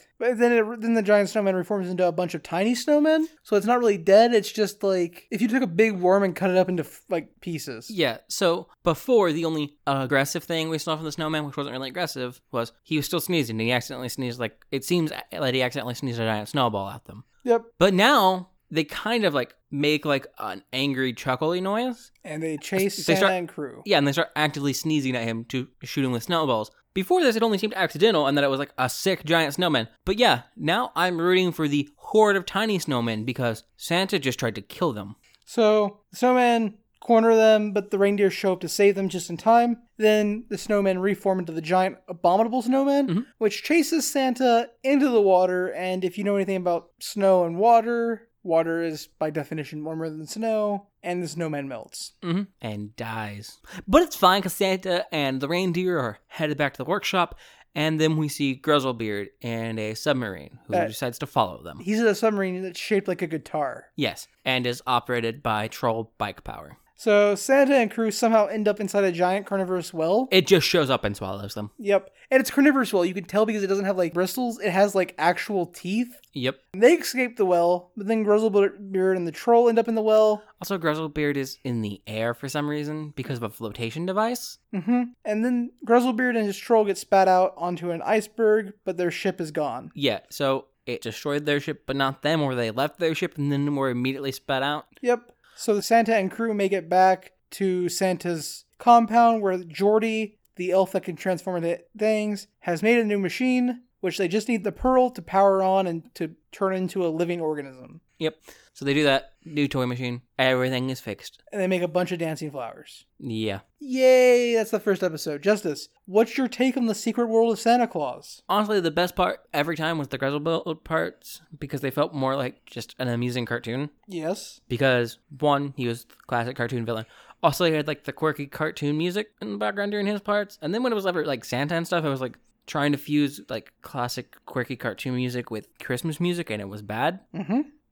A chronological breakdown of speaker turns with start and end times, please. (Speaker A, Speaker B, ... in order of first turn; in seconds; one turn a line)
Speaker A: 0.2-7.9
Speaker B: 7.9-17.2
Speaker A: 17.4-17.7
Speaker B: 17.8-22.1
Speaker A: 22.2-23.9
Speaker B: 22.8-35.2
Speaker A: 35.5-52.1
Speaker B: 52.2-61.8
Speaker A: 61.8-63.9
Speaker B: 64.0-66.8
Speaker A: 67.0-70.3
Speaker B: 70.3-71.7
Speaker A: 71.8-76.2
Speaker B: 76.3-76.6
Speaker A: 76.7-80.4
Speaker B: 80.6-84.6
Speaker A: 84.7-89.9
Speaker B: 90.0-94.9
Speaker A: 95.0-108.0
Speaker B: 108.2-111.4
Speaker A: 111.5-113.0
Speaker B: 113.2-113.6
Speaker A: 113.8-118.4
Speaker B: 118.5-123.9
Speaker A: 124.1-124.6
Speaker B: 124.7-137.2
Speaker A: 137.3-137.7